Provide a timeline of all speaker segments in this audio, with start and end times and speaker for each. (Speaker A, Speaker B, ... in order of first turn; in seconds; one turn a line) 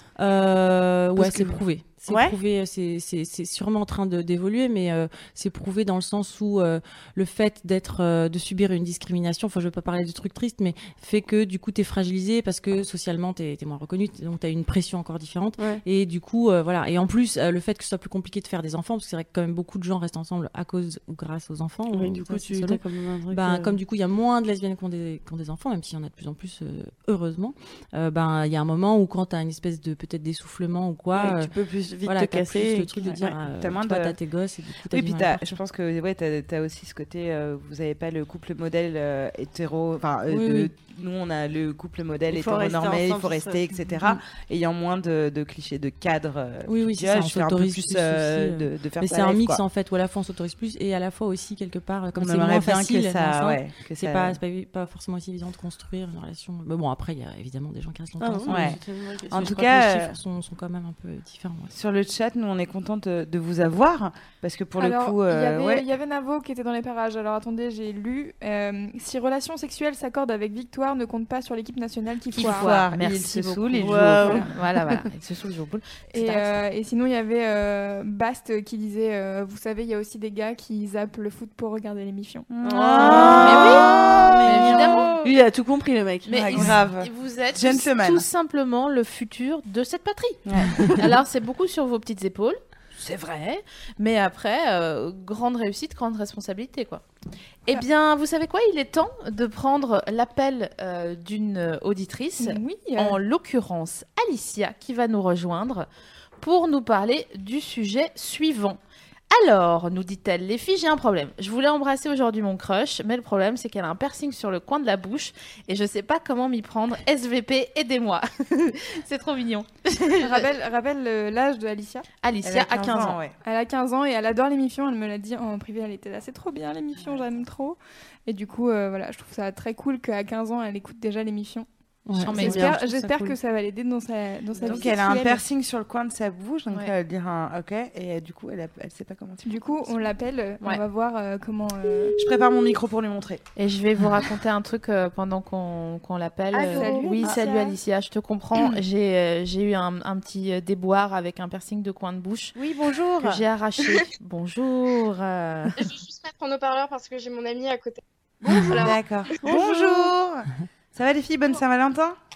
Speaker A: 0.2-31.5
Speaker B: 1.2-1.6
Speaker B: 2.1-2.4
Speaker B: 21.9-23.8
Speaker B: 31.1-33.4
Speaker A: 32.0-35.4
Speaker C: 33.6-34.2
Speaker C: 34.9-49.6
Speaker A: 40.3-40.7
Speaker B: 42.3-43.7
Speaker A: 46.7-58.8
Speaker C: 52.1-54.4
Speaker B: 58.2-59.7
Speaker C: 58.5-58.8
Speaker C: 59.3-60.2
Speaker A: 59.3-61.7
Speaker C: 61.7-65.9
Speaker D: 64.8-72.8
Speaker E: 72.3-76.6
Speaker C: 72.3-74.6
Speaker B: 73.8-74.5
Speaker D: 76.1-82.5
Speaker C: 82.5-85.2
Speaker B: 82.6-86.8
Speaker E: 83.0-85.3
Speaker E: 86.2-90.4
Speaker C: 86.4-88.3
Speaker C: 90.5-91.1
Speaker E: 90.9-97.0
Speaker E: 97.7-105.9
Speaker D: 102.4-103.2
Speaker E: 106.4-108.8
Speaker E: 109.3-120.5
Speaker D: 120.2-122.0
Speaker E: 122.2-123.2
Speaker C: 122.4-123.3
Speaker D: 123.4-131.7
Speaker A: 132.1-132.5
Speaker E: 132.2-133.3
Speaker D: 132.4-135.4
Speaker B: 132.4-132.8
Speaker C: 134.6-140.0
Speaker D: 139.4-142.1
Speaker C: 142.2-143.4
Speaker E: 143.6-152.6
Speaker B: 146.5-147.8
Speaker D: 146.7-147.2
Speaker C: 152.5-153.4
Speaker E: 153.2-155.8
Speaker F: 155.8-159.3
Speaker C: 158.7-162.2
Speaker B: 159.4-160.1